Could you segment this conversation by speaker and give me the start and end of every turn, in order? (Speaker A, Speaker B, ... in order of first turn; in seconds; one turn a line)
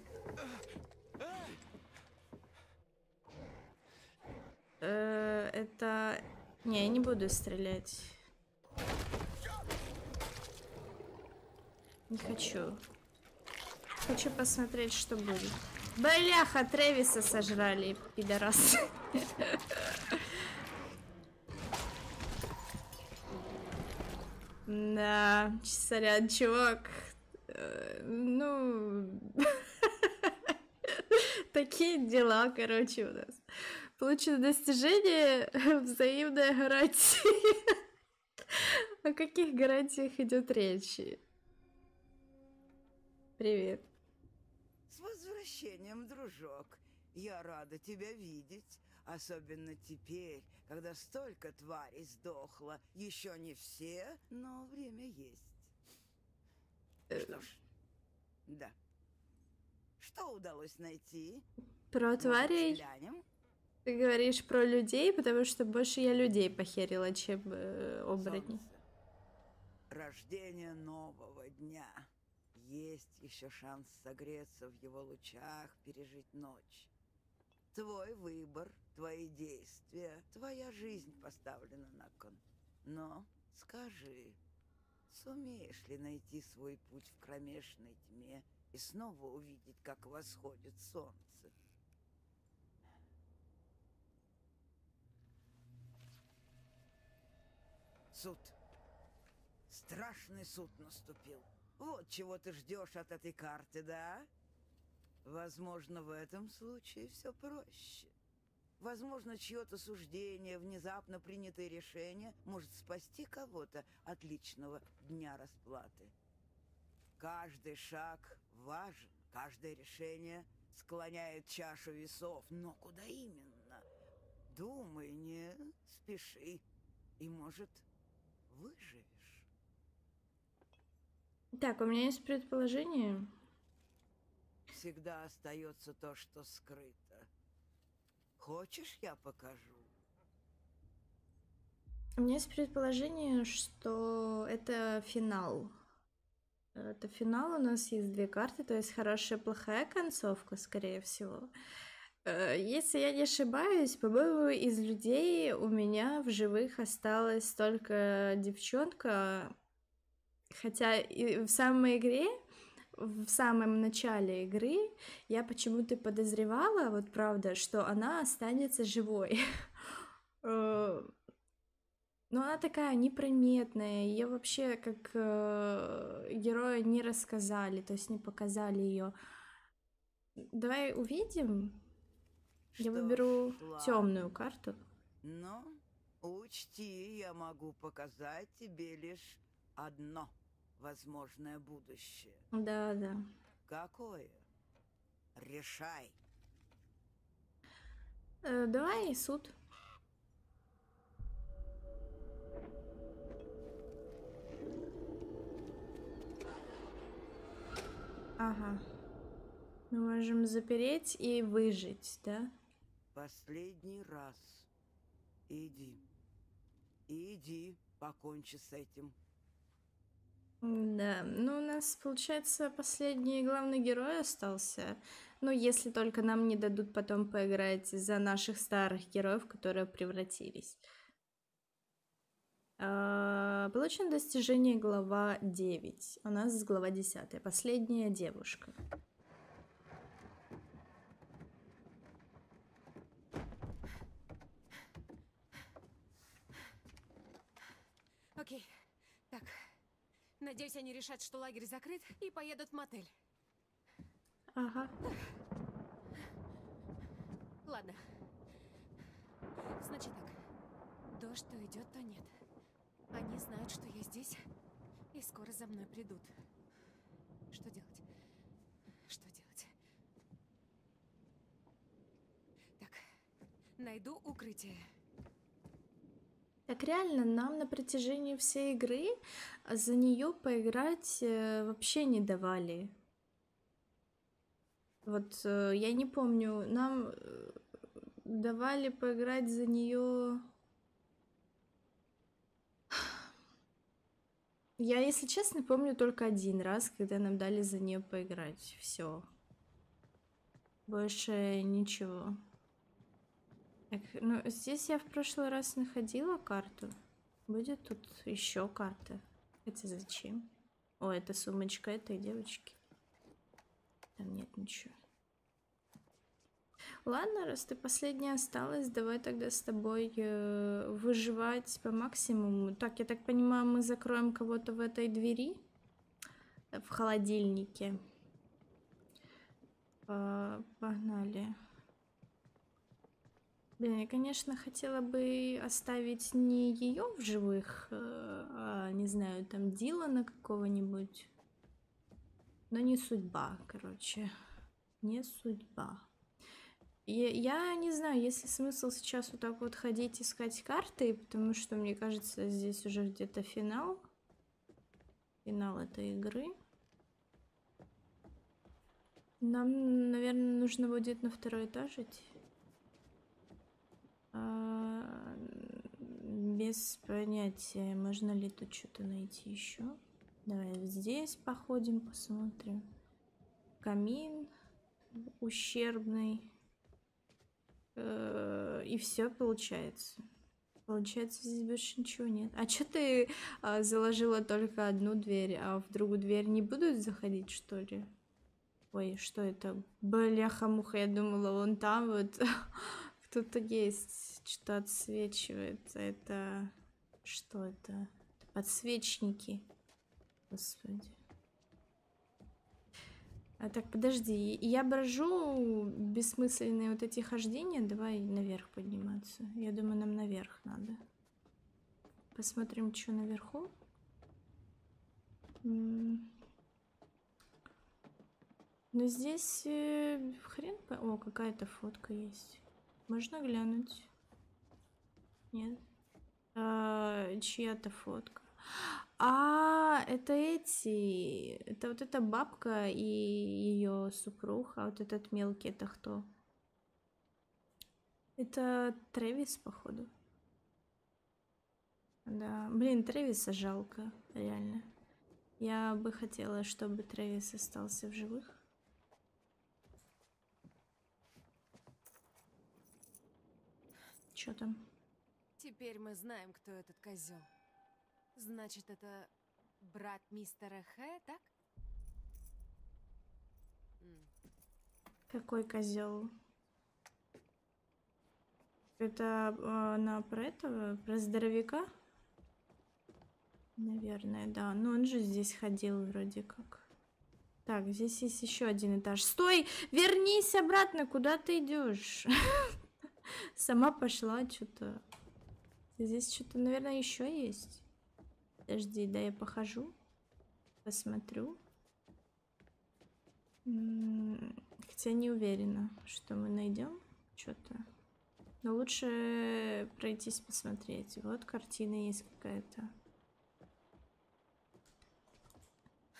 Speaker A: 4.8-8.2
Speaker A: 12.1-12.8
Speaker A: 14.0-20.2
Speaker A: 24.7-37.8
Speaker A: 38.5-41.2
Speaker A: 43.4-43.9
Speaker B: 44.9-55.7
Speaker A: 57.1-57.4
Speaker B: 57.1-57.6
Speaker B: 58.5-58.8
Speaker B: 60.0-61.5
Speaker A: 61.9-62.8
Speaker B: 62.2-63.2
Speaker A: 63.8-68.6
Speaker B: 68.2-68.8
Speaker B: 69.9-76.9
Speaker B: 77.7-84.4
Speaker B: 85.1-91.5
Speaker B: 98.1-98.5
Speaker B: 99.7-104.3
Speaker B: 105.2-108.1
Speaker B: 108.8-116.1
Speaker B: 117.2-123.8
Speaker B: 124.5-126.6
Speaker B: 127.2-127.8
Speaker B: 128.5-129.5
Speaker A: 131.5-133.3
Speaker B: 134.7-137.3
Speaker B: 138.4-139.9
Speaker A: 142.2-145.7
Speaker A: 146.7-151.5
Speaker A: 152.2-159.5
Speaker A: 160.5-162.3
Speaker A: 163.0-169.4
Speaker A: 170.4-171.1
Speaker A: 172.3-179.2
Speaker A: 180.4-181.8
Speaker B: 182.7-184.2
Speaker A: 182.8-184.8
Speaker B: 185.2-192.4
Speaker A: 192.5-193.2
Speaker B: 193.7-194.4
Speaker B: 195.3-196.2
Speaker A: 198.4-199.5
Speaker A: 208.4-208.8
Speaker A: 209.9-212.5
Speaker B: 213.1-214.7
Speaker B: 215.5-216.1
Speaker B: 217.1-219.2
Speaker A: 220.6-230.8
Speaker A: 232.8-238.8
Speaker C: 248.3-248.7
Speaker C: 249.3-249.7
Speaker C: 250.4-253.1
Speaker A: 254.6-254.9
Speaker C: 257.6-258.0
Speaker C: 259.8-260.4
Speaker C: 261.1-262.3
Speaker C: 263.1-264.4
Speaker C: 265.1-266.3
Speaker C: 267.5-268.0
Speaker C: 269.1-269.7
Speaker C: 273.8-274.8
Speaker A: 276.7-282.9
Speaker A: 285.1-287.6
Speaker A: 288.2-290.5
Speaker A: 294.8-299.3
Speaker A: 300.9-302.4
Speaker A: 303.9-306.9
Speaker A: 307.5-312.8
Speaker A: 314.2-314.9
Speaker A: 317.1-325.6
Speaker A: 326.7-328.0
Speaker A: 330.1-331.5
Speaker A: 333.8-341.3
Speaker A: 342.7-344.3
Speaker A: 345.0-346.1
Speaker A: 347.1-354.1
Speaker A: 355.4-356.5
Speaker A: 359.4-362.3
Speaker A: 364.3-372.8
Speaker A: 373.8-374.5
Speaker A: 375.1-376.5
Speaker A: 377.9-380.2
Speaker A: 380.9-388.1
Speaker A: 388.9-396.7
Speaker A: 397.2-399.6
Speaker A: 400.5-401.1
Speaker A: 403.6-411.0
Speaker A: 412.3-413.7
Speaker A: 415.6-416.3
Speaker A: 418.9-424.1
Speaker A: 425.5-425.8
Speaker A: 426.5-436.3
Speaker A: 438.4-440.1
Speaker A: 442.2-444.9
Speaker A: 445.6-448.5
Speaker A: 454.4-454.9
Speaker C: 455.6-457.5
Speaker C: 458.4-459.3
Speaker C: 459.8-461.5
Speaker C: 464.0-464.3
Speaker A: 465.3-466.3
Speaker A: 469.0-471.9
Speaker A: 473.8-476.9
Speaker A: 477.6-482.7
Speaker A: 483.6-485.0
Speaker A: 486.0-487.8
Speaker A: 488.7-489.9
Speaker A: 490.8-491.6
Speaker A: 493.6-497.8
Speaker A: 498.6-502.9